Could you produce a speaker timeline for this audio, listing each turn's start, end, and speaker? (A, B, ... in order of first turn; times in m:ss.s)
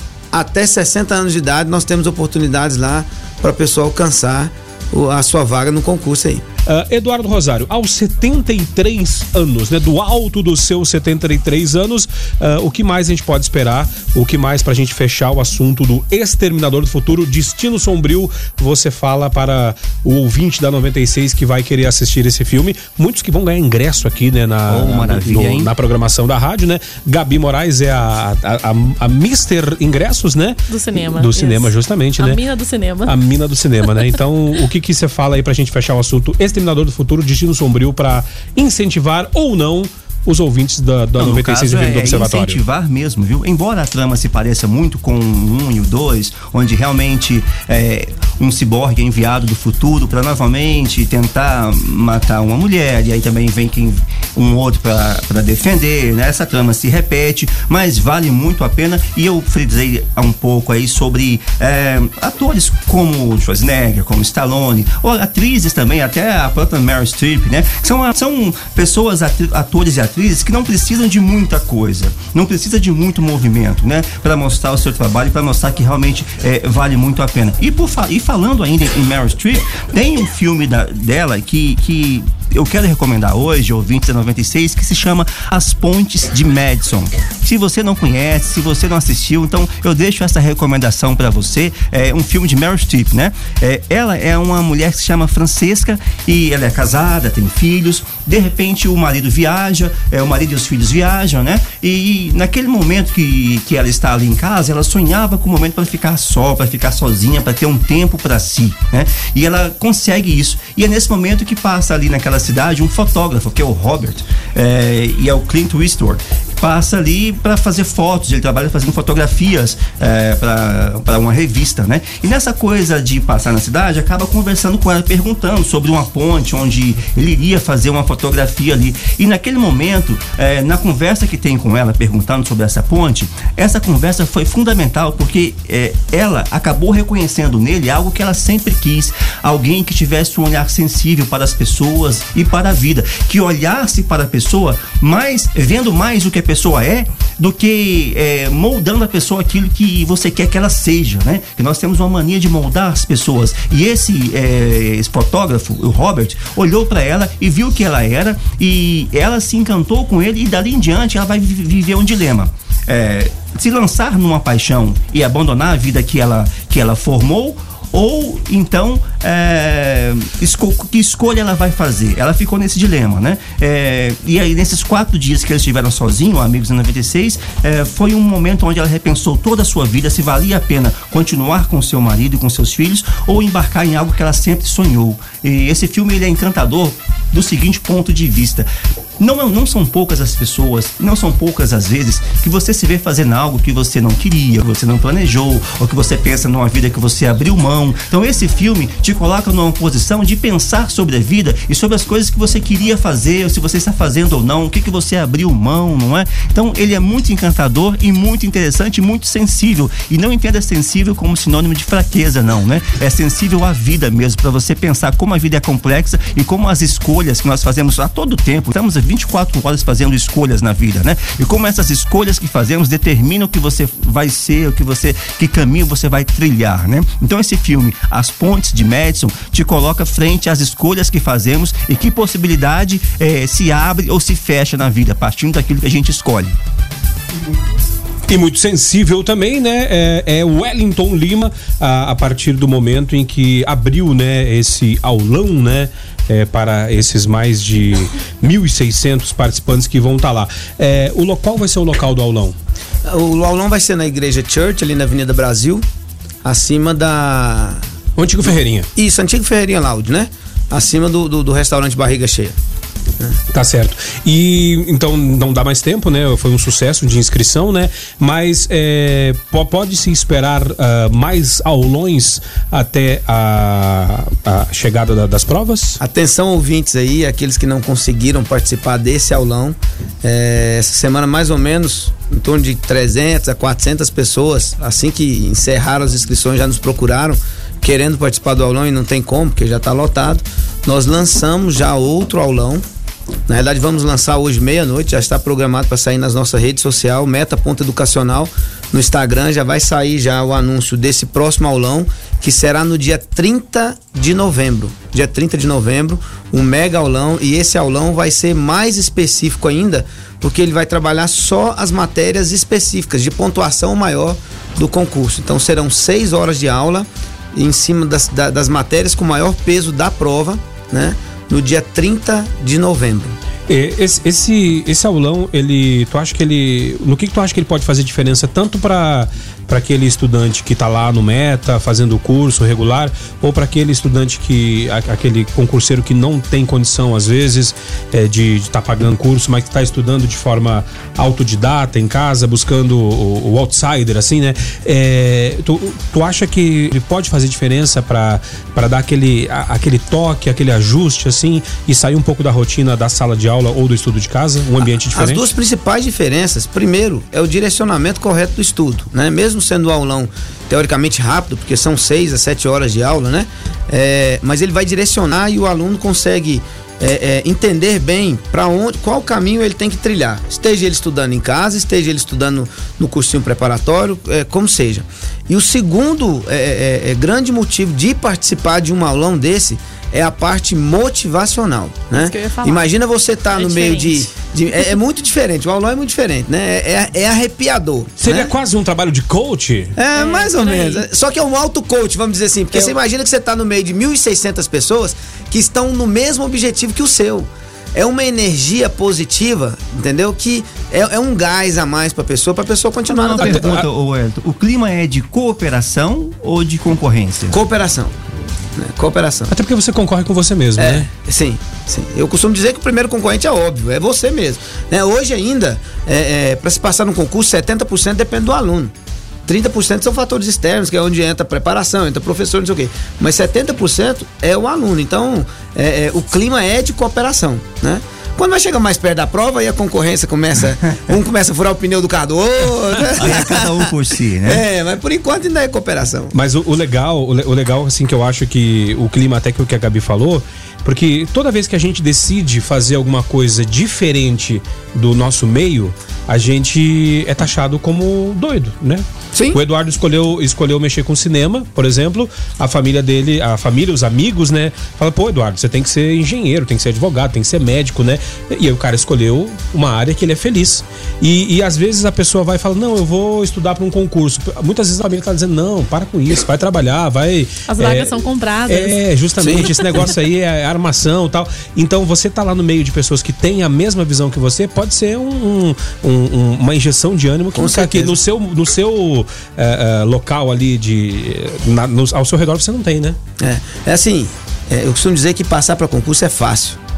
0:00.3-0:06.4 A
0:06.6-0:32.4 B
0:24.7-0:25.7 C
0:30.7-0:33.1 D
0:33.0-0:42.6 B
0:41.2-3:08.7 C
3:09.2-3:56.6 C
3:58.3-4:12.6 B
4:13.0-4:15.8 A
4:16.4-4:17.8 A
4:18.2-4:18.9 B
4:19.0-4:22.6 A
4:23.5-4:36.0 B
4:36.0-4:52.8 A
4:53.5-5:23.4 A
5:23.7-5:55.4 B
5:55.1-6:28.5 A
6:22.1-6:22.9 D
6:23.5-6:24.3 D
6:28.2-6:30.0 B
6:30.0-6:43.7 A
6:30.1-6:31.0 D
6:43.1-6:47.6 C
6:43.4-6:43.9 B
6:47.5-6:48.1 A
6:48.8-6:49.5 A
6:49.5-6:51.1 B
6:50.8-6:58.9 A
6:59.5-7:13.9 A
7:13.0-7:14.6 C
7:14.4-7:16.3 A
7:16.3-8:03.2 B
7:29.3-7:29.6 A
7:47.7-7:49.0 D
7:49.4-7:49.6 A
7:57.5-7:58.2 A
8:03.4-8:06.8 A